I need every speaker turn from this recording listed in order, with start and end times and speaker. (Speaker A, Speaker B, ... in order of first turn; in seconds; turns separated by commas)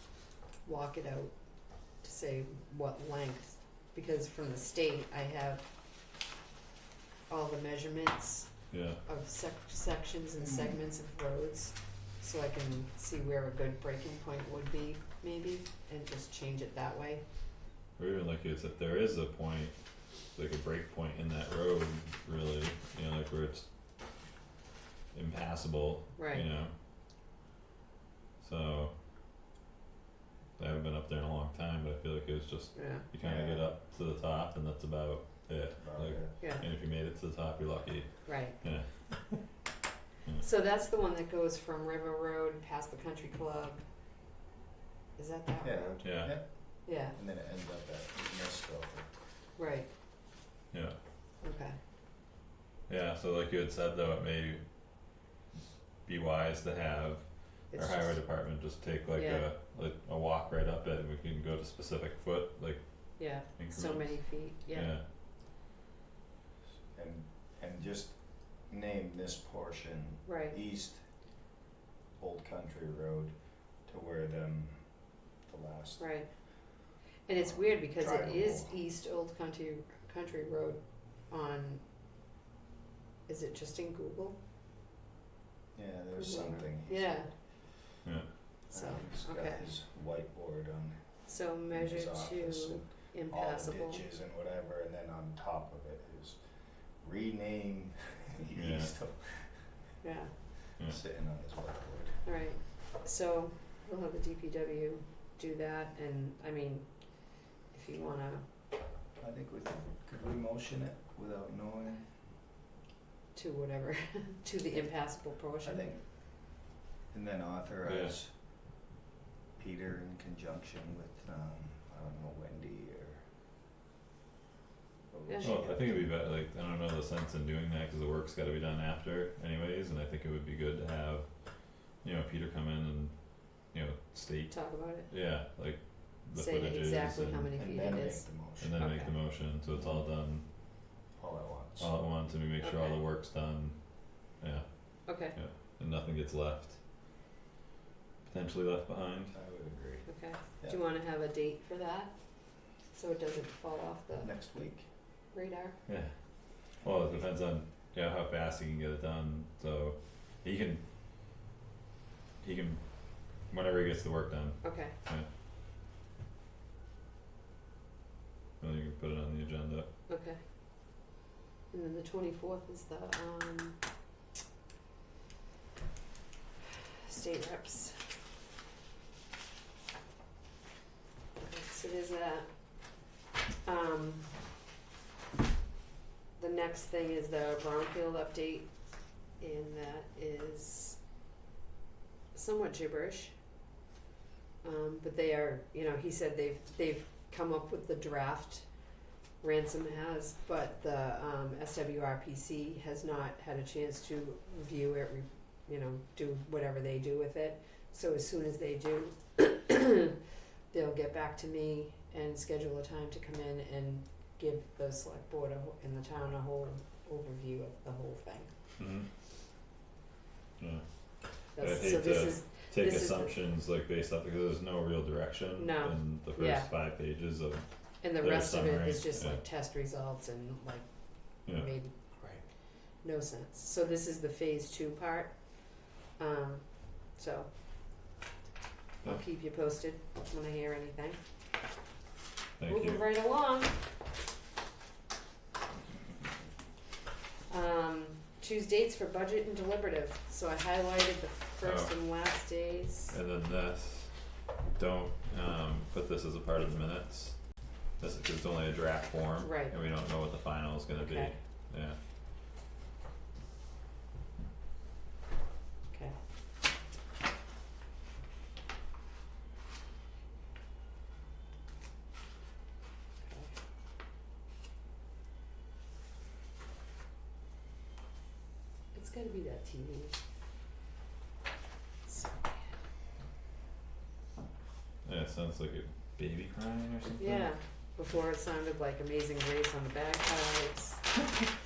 Speaker A: 0.6-1.4, Speaker A: 1.9-5.7, Speaker A: 7.3-17.2, Speaker B: 8.7-9.0, Speaker B: 18.0-19.7, Speaker B: 20.3-23.6, Speaker B: 25.1-26.7, Speaker A: 26.2-26.4, Speaker B: 28.4-28.9, Speaker B: 30.6-39.4, Speaker A: 32.7-33.0, Speaker C: 33.2-33.6, Speaker C: 35.8-36.3, Speaker A: 36.4-36.7, Speaker A: 38.2-38.6, Speaker A: 40.4-43.8, Speaker A: 45.1-47.2, Speaker C: 45.6-49.1, Speaker B: 46.0-46.3, Speaker A: 49.5-49.9, Speaker A: 51.4-51.8, Speaker B: 52.9-54.6, Speaker B: 56.0-65.0, Speaker A: 57.7-58.2, Speaker A: 59.1-59.5, Speaker A: 63.2-64.9, Speaker C: 66.9-71.1, Speaker A: 70.2-70.5, Speaker C: 72.2-76.4, Speaker A: 76.0-81.8, Speaker C: 77.3-78.8, Speaker A: 83.3-84.4, Speaker C: 85.7-87.4, Speaker A: 86.2-87.3, Speaker B: 88.0-88.3, Speaker A: 88.7-89.7, Speaker C: 88.7-96.4, Speaker A: 91.2-94.0, Speaker C: 97.0-99.7, Speaker B: 98.5-98.9, Speaker A: 100.0-100.3, Speaker C: 100.8-102.2, Speaker A: 102.2-108.4, Speaker C: 109.2-112.1, Speaker A: 113.3-115.8, Speaker C: 114.7-116.3, Speaker C: 117.1-118.4, Speaker B: 117.8-118.1, Speaker C: 119.6-123.3, Speaker C: 125.1-126.1, Speaker A: 125.3-125.5, Speaker B: 125.4-131.3, Speaker B: 131.8-137.5, Speaker A: 134.5-135.1, Speaker A: 136.3-139.2, Speaker C: 137.6-138.8, Speaker B: 138.6-140.4, Speaker C: 139.7-140.0, Speaker C: 141.1-141.9, Speaker B: 141.8-146.8, Speaker A: 142.6-143.0, Speaker A: 145.1-145.3, Speaker B: 148.3-149.3, Speaker C: 149.3-150.8, Speaker A: 150.1-152.1, Speaker A: 152.7-154.3, Speaker C: 154.2-154.9, Speaker A: 155.3-155.8, Speaker B: 155.9-160.8, Speaker B: 162.4-165.3, Speaker A: 164.6-164.9, Speaker B: 168.6-169.9, Speaker A: 170.1-170.4, Speaker A: 171.7-173.8, Speaker A: 177.0-178.1, Speaker A: 181.3-183.0, Speaker A: 183.6-184.3, Speaker A: 186.3-188.7, Speaker A: 189.4-191.0, Speaker A: 192.3-193.3, Speaker A: 194.6-198.7, Speaker A: 199.4-210.1, Speaker A: 210.7-218.5, Speaker B: 218.8-219.1, Speaker B: 221.3-229.4, Speaker A: 221.6-223.3, Speaker A: 225.6-226.7, Speaker A: 228.0-231.9, Speaker A: 233.0-237.5, Speaker A: 239.0-241.2, Speaker B: 242.6-243.0, Speaker A: 242.7-243.8, Speaker A: 247.5-253.1, Speaker B: 251.6-251.9, Speaker B: 253.1-262.0, Speaker A: 259.4-259.7, Speaker A: 261.0-261.4, Speaker A: 265.9-266.2, Speaker A: 273.2-273.5, Speaker A: 278.9-280.1, Speaker A: 282.0-282.7, Speaker B: 285.0-287.5, Speaker A: 287.2-291.3